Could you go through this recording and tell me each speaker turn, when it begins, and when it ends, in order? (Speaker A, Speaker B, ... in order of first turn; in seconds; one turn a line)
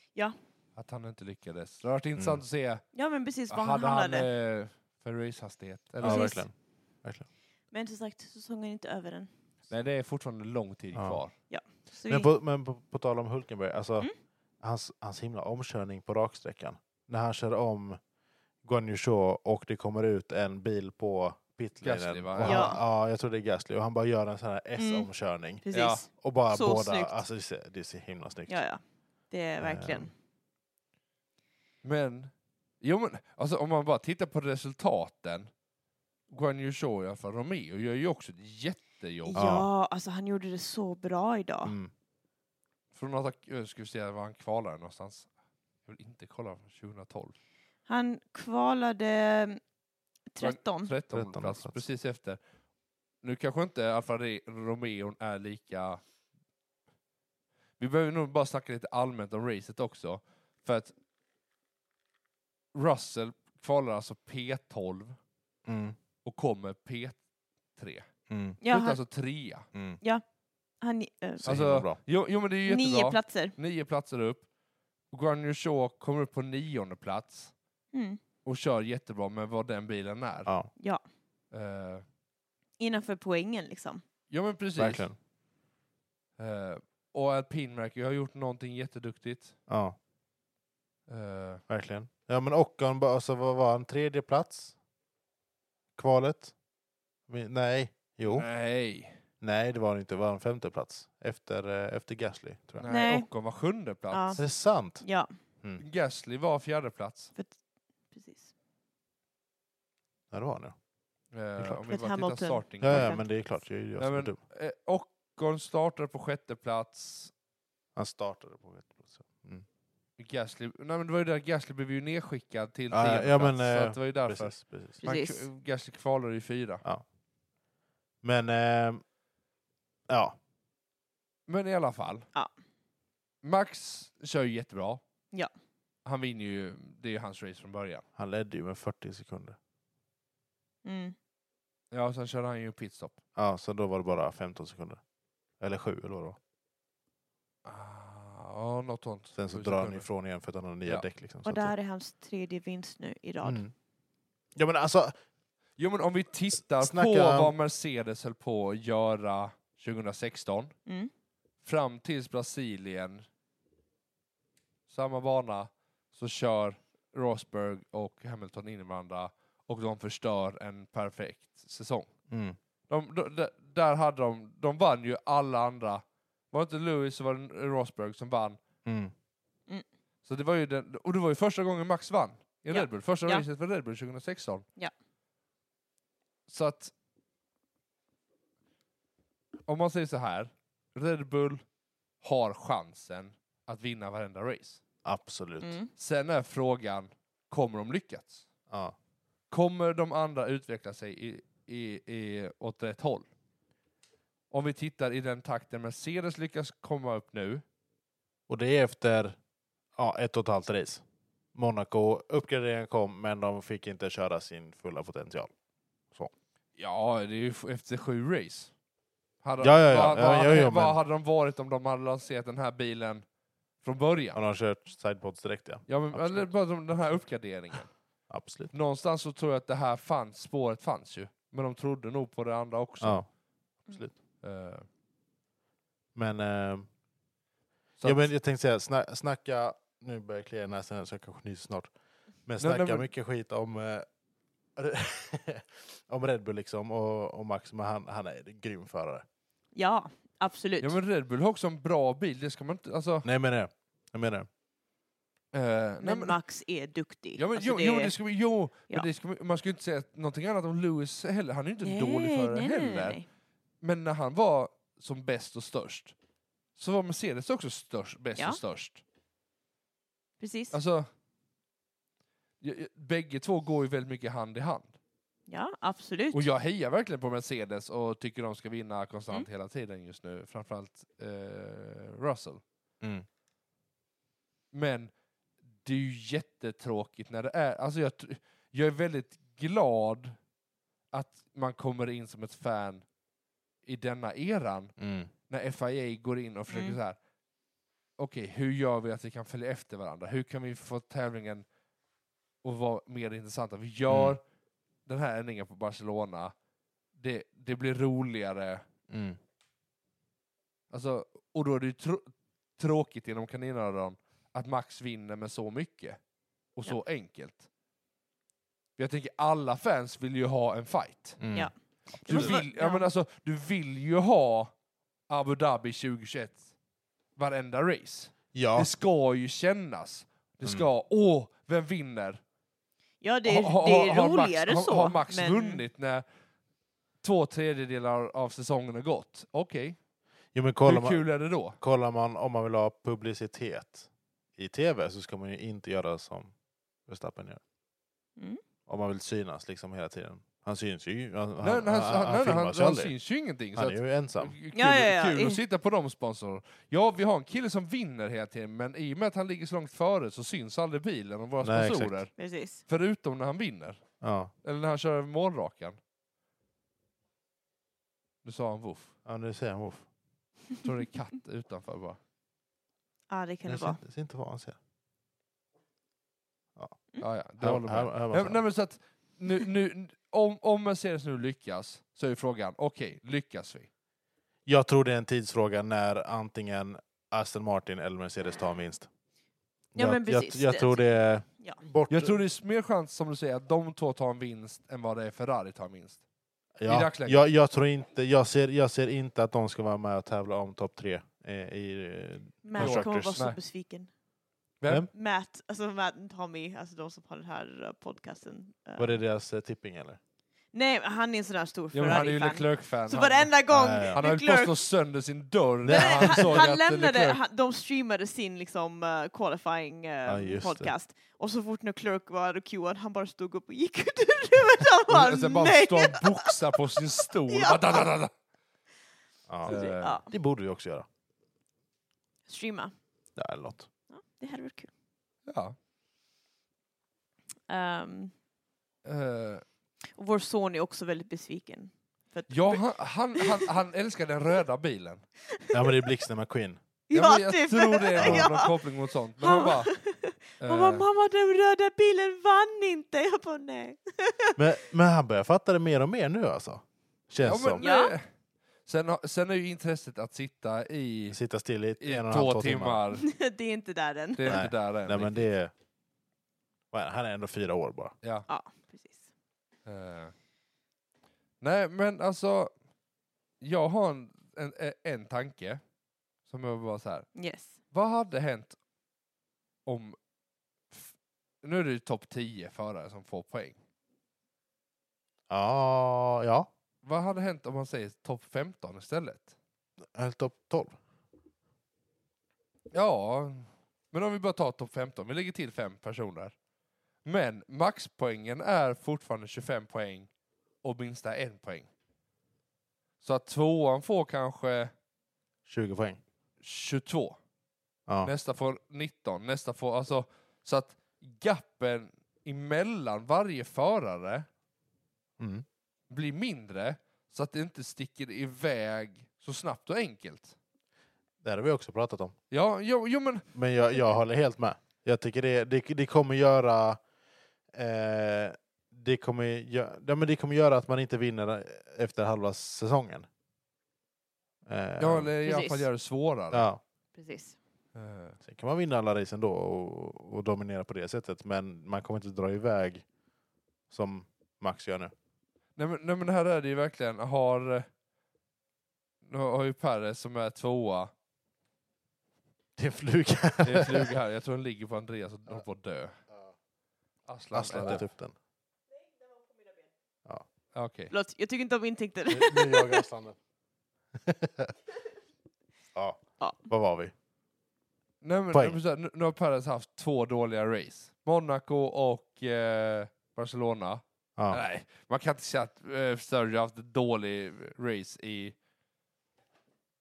Speaker A: 0.8-2.8
Speaker B: 2.9-4.3
Speaker A: 3.5-6.3
Speaker C: 6.0-6.5
Speaker B: 6.0-6.4
Speaker B: 7.7-9.3
Speaker A: 9.7-11.3
Speaker C: 10.9-11.2
Speaker B: 11.5-12.3
Speaker C: 12.1-14.1
Speaker C: 14.6-18.0
Speaker C: 18.6-28.6
Speaker A: 21.8-22.8
Speaker B: 22.4-22.8
Speaker B: 24.8-25.1
Speaker B: 25.6-27.2
Speaker A: 25.7-26.0
Speaker B: 28.5-30.1
Speaker C: 29.6-30.1
Speaker A: 31.8-35.5
Speaker A: 36.3-39.4
Speaker B: 39.2-41.7
Speaker C: 39.3-39.7
Speaker C: 41.6-41.9
Speaker A: 42.9-45.3
Speaker A: 45.9-47.3
Speaker B: 47.9-49.6
Speaker B: 50.3-50.9
Speaker A: 50.4-52.4
Speaker C: 51.1-51.8
Speaker A: 53.2-56.0
Speaker A: 57.8-60.9
Speaker A: 62.7-65.2
Speaker C: 65.7-66.0
Speaker A: 66.2-67.2
Speaker A: 67.7-68.1
Speaker C: 68.3-68.6
Speaker B: 68.6-69.0
Speaker A: 68.7-69.7
Speaker C: 69.7-70.0
Speaker B: 70.8-71.5
Speaker C: 71.4-72.0
Speaker A: 71.5-74.4
Speaker B: 72.6-73.5
Speaker A: 75.1-77.5
Speaker B: 77.9-78.2
Speaker A: 78.4-80.5
Speaker A: 81.5-82.0
Speaker B: 82.8-84.0
Speaker A: 84.3-85.1
Speaker C: 84.8-85.1
Speaker A: 86.4-89.5
Speaker C: 89.7-90.0
Speaker A: 91.1-91.6
Speaker C: 91.7-94.7
Speaker C: 96.0-96.5
Speaker C: 97.3-98.5
Speaker A: 98.3-99.2
Speaker C: 99.4-102.9
Speaker A: 102.8-104.4
Speaker B: 102.9-103.3
Speaker B: 104.1-104.4
Speaker C: 104.4-105.0
Speaker B: 105.0-105.3
Speaker A: 105.8-107.3
Speaker B: 108.1-108.5
Speaker C: 110.3-110.8
Speaker A: 111.3-113.2
Speaker C: 111.6-111.8
Speaker B: 111.9-113.2
Speaker C: 112.8-114.4
Speaker A: 114.0-117.3
Speaker C: 118.0-119.6
Speaker A: 120.2-126.8
Speaker C: 122.9-125.0
Speaker B: 125.0-125.5
Speaker C: 128.2-129.0
Speaker C: 130.1-130.4
Speaker A: 131.5-132.3
Speaker A: 133.4-135.0
Speaker A: 136.0-138.0
Speaker C: 138.2-139.6
Speaker B: 140.8-141.1
Speaker A: 141.9-143.2
Speaker C: 143.3-145.0
Speaker C: 145.6-146.4
Speaker A: 147.6-150.1
Speaker C: 149.3-151.7
Speaker B: 151.4-153.6
Speaker C: 153.4-153.7
Speaker C: 154.5-155.1
Speaker A: 155.8-160.7
Speaker C: 156.6-157.5
Speaker B: 160.8-161.1
Speaker A: 161.6-163.2
Speaker A: 164.9-172.1
Speaker C: 172.3-172.6
Speaker A: 172.9-178.6
Speaker C: 178.8-179.1
Speaker A: 180.2-184.6
Speaker B: 182.7-183.4
Speaker A: 186.5-186.9
Speaker A: 189.7-191.6
Speaker A: 192.2-194.8
Speaker C: 195.0-195.8
Speaker B: 195.6-195.9
Speaker A: 196.0-198.4
Speaker C: 198.7-198.9
Speaker A: 199.5-203.3
Speaker A: 204.5-207.6
Speaker C: 208.5-209.4
Speaker C: 210.0-211.0
Speaker C: 211.5-215.5
Speaker A: 216.8-218.7
Speaker A: 219.4-223.2
Speaker C: 219.6-221.0
Speaker A: 223.8-224.4
Speaker C: 224.3-226.5
Speaker A: 225.9-227.9
Speaker C: 228.3-228.7
Speaker A: 228.7-233.2
Speaker C: 233.0-233.3
Speaker C: 233.8-234.1
Speaker A: 234.4-234.8
Speaker C: 236.1-236.9
Speaker A: 238.0-238.3
Speaker C: 238.0-241.9
Speaker C: 242.4-244.1
Speaker A: 242.6-243.1
Speaker C: 244.8-249.2
Speaker B: 249.7-250.9
Speaker A: 250.8-253.3
Speaker C: 253.2-254.5
Speaker A: 255.5-256.4
Speaker B: 256.0-258.1
Speaker A: 257.4-263.2
Speaker B: 261.8-263.2
Speaker A: 263.8-266.1
Speaker A: 266.8-269.0
Speaker B: 270.4-270.8
Speaker A: 270.7-271.1
Speaker A: 272.6-274.9
Speaker B: 275.5-276.5
Speaker A: 276.3-282.6
Speaker A: 284.7-285.1
Speaker A: 285.8-290.4
Speaker A: 291.1-293.0
Speaker A: 293.8-294.9
Speaker C: 295.0-295.3
Speaker A: 295.5-297.2
Speaker B: 296.7-297.0
Speaker A: 298.2-301.6
Speaker A: 302.6-304.4
Speaker C: 304.1-304.4
Speaker A: 305.1-306.5
Speaker A: 307.2-308.9
Speaker C: 309.1-309.4
Speaker A: 310.9-316.2
Speaker A: 316.7-317.7
Speaker A: 319.0-321.4
Speaker C: 321.4-321.7
Speaker B: 321.5-323.1
Speaker A: 322.2-324.7
Speaker C: 322.3-322.6
Speaker A: 325.3-326.6
Speaker A: 327.4-332.4
Speaker C: 328.5-328.9
Speaker B: 333.2-335.8
Speaker A: 333.4-336.2
Speaker A: 337.2-340.0
Speaker C: 340.5-341.2
Speaker A: 340.8-341.8
Speaker C: 341.8-346.5
Speaker C: 347.1-347.6
Speaker C: 348.9-353.1
Speaker A: 351.6-362.3
Speaker C: 353.7-354.5
Speaker B: 354.7-355.6
Speaker C: 361.6-362.2
Speaker B: 362.4-362.8
Speaker A: 362.9-364.0
Speaker C: 364.2-364.5
Speaker A: 364.6-366.0
Speaker A: 368.4-369.1
Speaker C: 369.2-370.0
Speaker A: 370.8-372.2
Speaker B: 373.3-374.0
Speaker C: 373.6-374.8
Speaker A: 377.2-383.9
Speaker C: 377.6-378.6
Speaker C: 384.6-389.1
Speaker C: 389.9-392.4
Speaker B: 389.9-391.1
Speaker A: 392.1-396.2
Speaker C: 396.8-403.4
Speaker A: 396.9-397.4
Speaker B: 402.6-404.1
Speaker A: 402.8-403.6
Speaker A: 404.8-405.1
Speaker B: 405.1-409.2
Speaker C: 409.0-410.2
Speaker B: 410.7-414.8
Speaker A: 411.9-413.5
Speaker C: 413.7-414.2
Speaker A: 414.1-417.4
Speaker C: 415.8-416.7
Speaker B: 415.9-426.6
Speaker C: 420.2-420.9
Speaker A: 425.1-428.3
Speaker B: 427.5-428.1
Speaker C: 429.5-431.1
Speaker A: 429.6-430.2
Speaker B: 429.6-430.3
Speaker B: 432.5-432.9
Speaker C: 433.4-433.9
Speaker B: 434.1-434.9
Speaker A: 435.5-435.8
Speaker B: 437.7-438.3
Speaker A: 439.0-439.6
Speaker B: 440.1-443.7
Speaker A: 442.5-445.2
Speaker B: 445.5-446.0
Speaker C: 445.7-446.8
Speaker B: 447.1-454.6
Speaker A: 447.1-449.9
Speaker C: 448.2-448.6
Speaker A: 450.6-451.1
Speaker C: 454.6-457.8
Speaker A: 457.4-458.3
Speaker B: 457.8-458.1
Speaker A: 458.9-461.4
Speaker C: 461.3-463.0
Speaker A: 462.0-463.3
Speaker B: 463.1-464.6
Speaker A: 464.4-465.5
Speaker C: 464.5-465.7
Speaker C: 466.9-468.1
Speaker B: 468.5-469.2
Speaker A: 469.9-470.3
Speaker A: 471.6-472.7
Speaker A: 473.6-475.8
Speaker A: 476.4-477.3
Speaker B: 477.3-477.8
Speaker A: 477.9-478.8
Speaker A: 479.9-480.2
Speaker A: 481.6-483.8
Speaker C: 485.5-486.7
Speaker A: 487.0-489.5
Speaker C: 490.1-491.0
Speaker A: 492.9-496.5
Speaker A: 497.2-500.3
Speaker A: 500.8-501.9
Speaker A: 503.2-504.9
Speaker C: 505.6-506.2
Speaker A: 506.6-507.4
Speaker A: 508.2-514.5
Speaker C: 515.4-515.6
Speaker A: 516.1-520.5
Speaker C: 521.4-522.3
Speaker A: 522.5-523.5
Speaker C: 523.5-527.0
Speaker C: 527.7-533.3
Speaker C: 534.6-535.3
Speaker A: 535.0-536.7
Speaker B: 535.4-535.9
Speaker C: 536.5-536.8
Speaker B: 537.1-537.5
Speaker A: 537.9-538.4
Speaker C: 538.4-543.0
Speaker C: 543.9-545.1
Speaker A: 545.8-547.9
Speaker A: 549.2-551.1
Speaker C: 552.8-554.1
Speaker A: 553.6-556.2
Speaker A: 557.3-558.0
Speaker C: 557.5-558.3
Speaker A: 560.7-561.1
Speaker B: 561.1-563.0
Speaker C: 562.3-563.4
Speaker C: 564.2-564.7
Speaker C: 565.9-567.1
Speaker A: 568.2-578.5
Speaker C: 568.5-568.8
Speaker C: 574.4-574.6